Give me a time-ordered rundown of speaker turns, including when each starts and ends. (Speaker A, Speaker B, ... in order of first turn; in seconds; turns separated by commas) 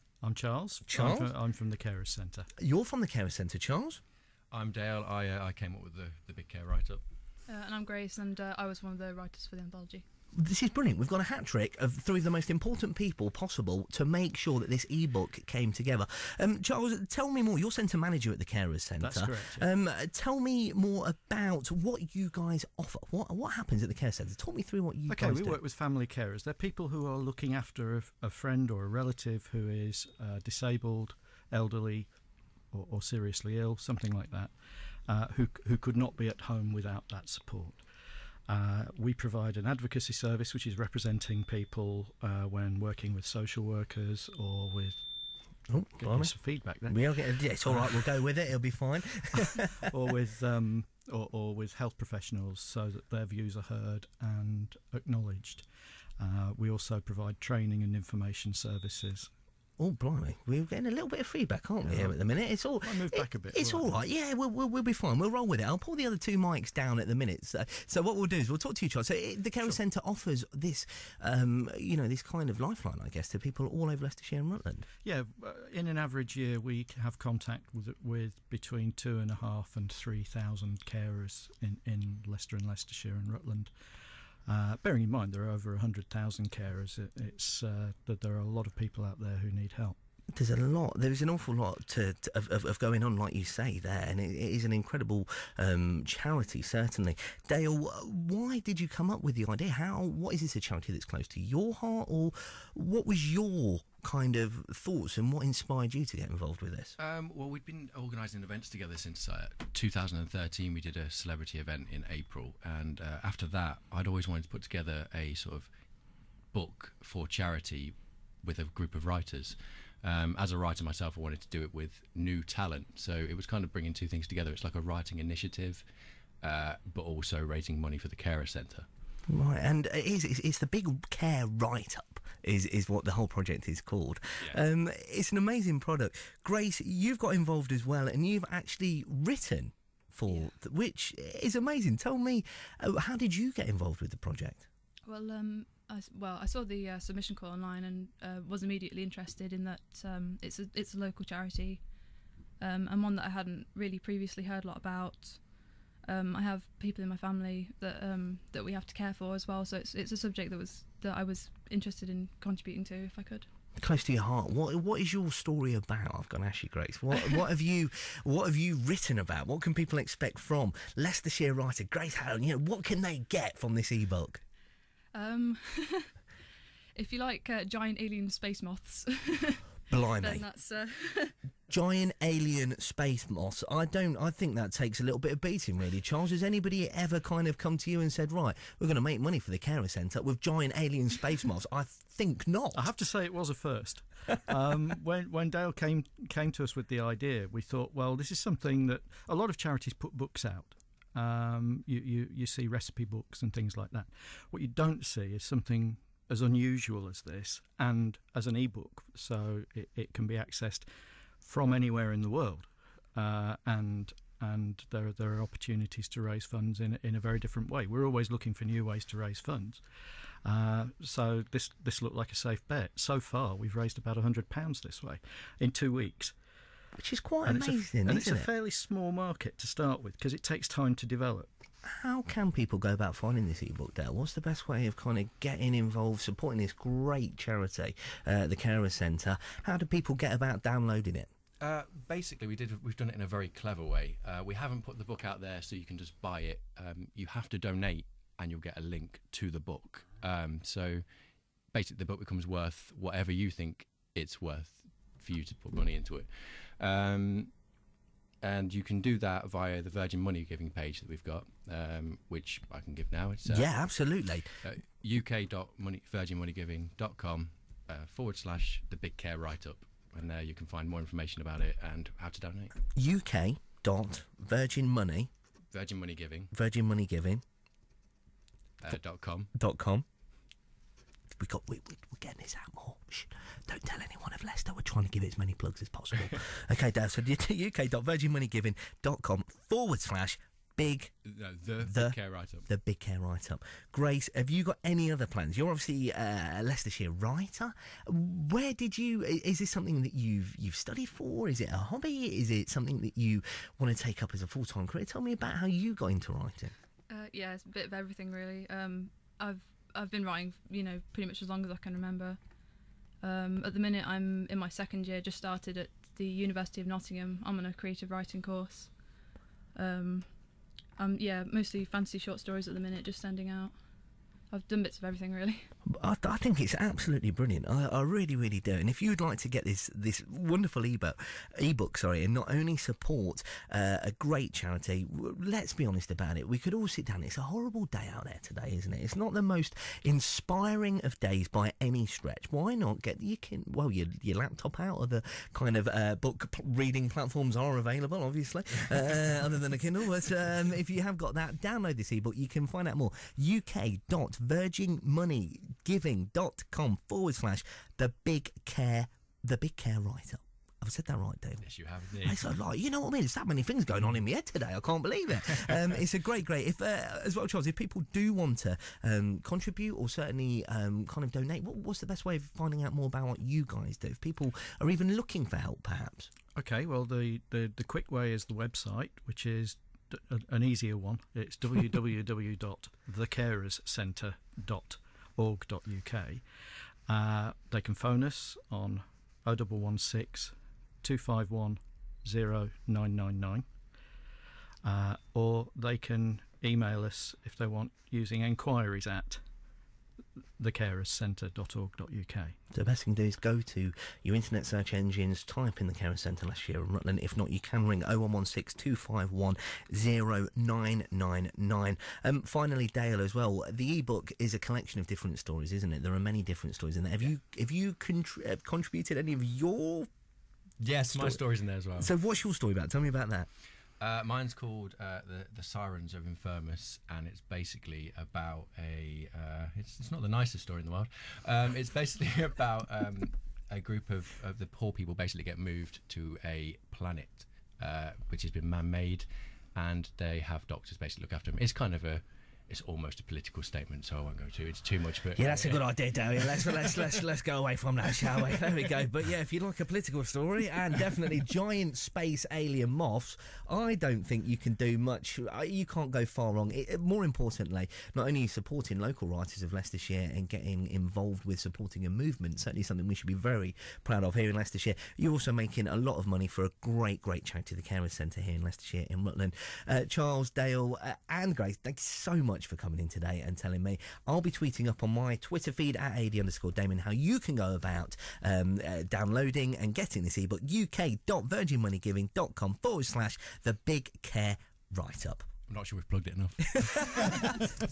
Speaker A: 0.2-2.5, Speaker B: 0.9-1.3, Speaker B: 2.6-4.0, Speaker C: 4.5-7.0, Speaker D: 7.5-10.0, Speaker B: 10.3-25.6, Speaker A: 19.0-19.7, Speaker A: 25.1-32.1, Speaker A: 32.7-34.5, Speaker A: 35.1-37.8, Speaker A: 38.5-45.0, Speaker B: 45.7-46.3, Speaker A: 46.0-48.0, Speaker B: 46.9-49.8, Speaker A: 49.3-55.6, Speaker A: 56.2-59.3, Speaker B: 59.8-74.8, Speaker A: 61.8-62.2, Speaker A: 62.8-64.0, Speaker A: 75.0-83.7, Speaker A: 84.5-90.0, Speaker B: 90.3-107.0, Speaker C: 107.0-115.7, Speaker C: 116.5-125.8, Speaker C: 126.4-128.9, Speaker B: 129.3-144.7, Speaker D: 145.1-151.8, Speaker D: 152.6-155.5, Speaker D: 156.0-163.4, Speaker B: 163.8-174.4, Speaker D: 175.1-176.1, Speaker D: 176.9-181.3, Speaker B: 179.9-180.4, Speaker B: 181.7-192.9, Speaker A: 192.7-210.9, Speaker A: 211.4-219.8, Speaker A: 220.4-226.3, Speaker B: 226.9-228.5, Speaker A: 227.4-231.5, Speaker B: 231.8-241.3, Speaker C: 241.6-251.0, Speaker C: 251.7-257.5, Speaker C: 258.4-263.8, Speaker B: 263.4-264.5, Speaker C: 264.6-272.7, Speaker B: 272.9-275.3, Speaker C: 275.7-276.5, Speaker B: 276.5-277.4, Speaker C: 278.8-279.5, Speaker B: 279.5-280.0, Speaker B: 281.4-291.1, Speaker C: 291.2-292.7, Speaker B: 291.8-292.1, Speaker B: 292.7-306.7, Speaker D: 307.1-312.4, Speaker D: 313.2-318.9, Speaker D: 319.7-320.3, Speaker D: 321.0-323.7, Speaker D: 324.5-325.7, Speaker B: 325.9-361.6, Speaker C: 361.6-362.4, Speaker B: 362.2-376.3, Speaker A: 376.6-386.4, Speaker A: 387.1-393.6, Speaker A: 394.8-399.4, Speaker A: 400.6-402.6, Speaker B: 402.7-420.1, Speaker C: 420.8-422.1, Speaker B: 421.1-421.4, Speaker B: 421.9-423.5, Speaker C: 424.0-445.8, Speaker B: 445.4-485.5, Speaker C: 485.7-487.7